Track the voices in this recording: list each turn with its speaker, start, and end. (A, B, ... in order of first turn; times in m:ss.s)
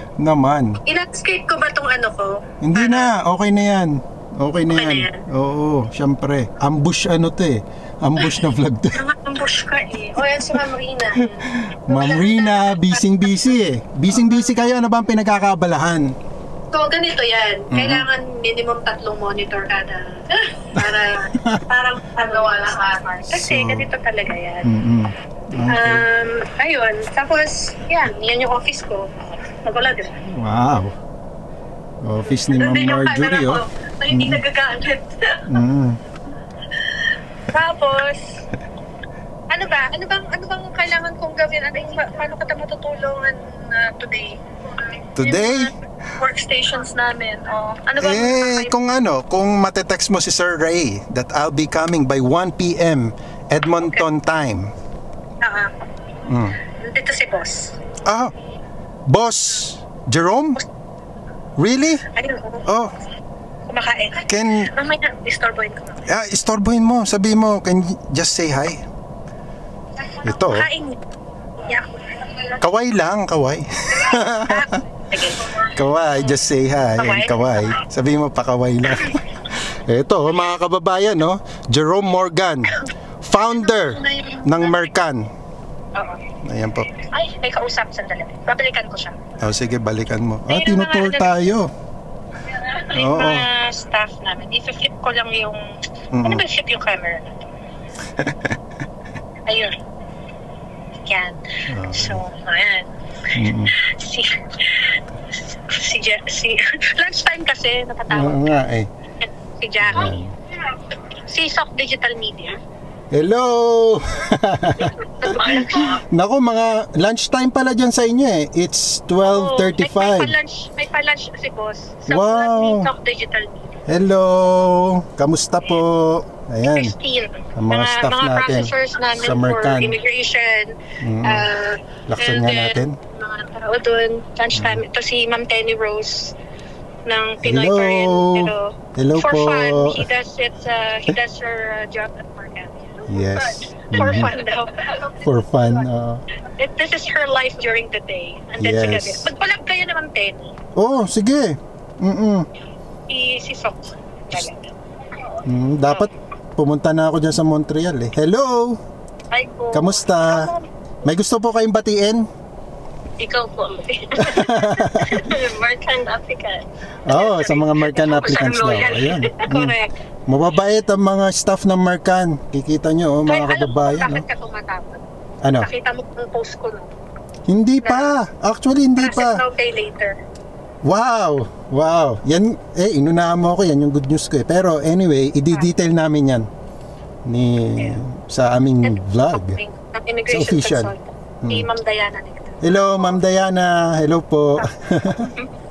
0:00.2-0:00.8 A
0:00.9-0:03.1 B
0:02.6-0:09.0 A
0:04.7-0:05.2 B
0:08.9-0:13.3 B
0:11.5-0:16.1 A
0:14.1-0:14.5 B
0:16.7-0:24.8 B
0:17.7-0:18.1 A
0:21.4-0:21.6 A
0:23.3-0:23.9 A
0:24.6-0:26.1 A
0:25.6-0:30.2 B
0:30.3-0:30.9 A
0:32.0-0:34.4 A
0:32.5-0:35.6 B
0:35.5-0:36.0 A
0:37.5-0:38.4 B
0:39.5-0:48.7 B
0:45.2-0:45.7 A
0:48.0-0:54.7 A
0:55.4-0:55.7 B
0:56.3-0:56.6 A
0:56.6-0:57.8 B
0:58.0-0:58.3 A
0:59.1-1:00.6 A
1:01.6-1:02.0 A
1:02.1-1:02.6 B
1:02.6-1:02.9 A
1:03.7-1:06.0 B
1:04.3-1:04.7 A
1:06.0-1:08.8 A
1:10.0-1:11.0 B
1:10.2-1:10.7 A
1:11.6-1:12.6 B
1:12.6-1:14.8 A
1:13.9-1:15.7 B
1:15.6-1:25.3 A
1:17.0-1:17.8 B
1:23.8-1:24.7 B
1:25.9-1:26.2 B
1:26.4-1:26.9 A
1:27.0-1:29.2 B
1:29.4-1:31.7 A
1:30.5-1:31.4 B
1:32.5-1:35.6 B
1:32.9-1:33.5 A
1:36.1-1:36.4 A
1:36.2-1:37.4 B
1:38.2-1:38.5 A
1:39.4-1:39.8 B
1:40.9-1:42.9 B
1:41.7-1:42.2 A
1:43.4-1:43.7 A
1:43.8-1:45.0 B
1:45.5-1:48.4 B
1:48.1-1:48.9 A
1:49.2-1:50.2 B
1:49.9-1:50.3 A
1:51.2-1:52.6 B
1:53.1-2:00.3 A
1:54.8-1:56.0 B
1:59.2-2:03.8 B
2:02.1-2:02.9 A
2:03.9-2:06.9 A
2:06.7-2:16.4 B
2:07.6-2:10.0 A
2:11.0-2:11.5 A
2:12.1-2:13.0 A
2:14.5-2:14.8 A
2:17.0-2:25.1 B
2:17.4-2:20.1 A
2:23.1-2:24.4 A
2:25.2-2:26.2 A
2:26.6-2:30.5 B
2:28.6-2:29.3 A
2:30.8-2:32.4 A
2:33.1-2:34.7 B
2:35.4-2:38.8 A
2:39.3-2:40.7 B
2:39.7-2:40.5 A
2:41.0-2:42.3 A
2:43.2-2:50.0 B
2:44.2-2:45.2 A
2:47.1-2:49.8 A
2:50.3-2:54.2 A
2:53.3-2:55.0 B
2:55.4-2:55.7 A
2:55.5-2:56.9 B
2:57.5-2:59.4 A
2:57.8-2:58.2 B
2:59.0-3:00.2 B
3:00.8-3:06.5 A
3:07.2-3:09.6 A
3:07.8-3:08.0 B
3:08.8-3:13.2 B
3:10.3-3:11.7 A
3:12.6-3:15.3 A
3:14.6-3:15.5 B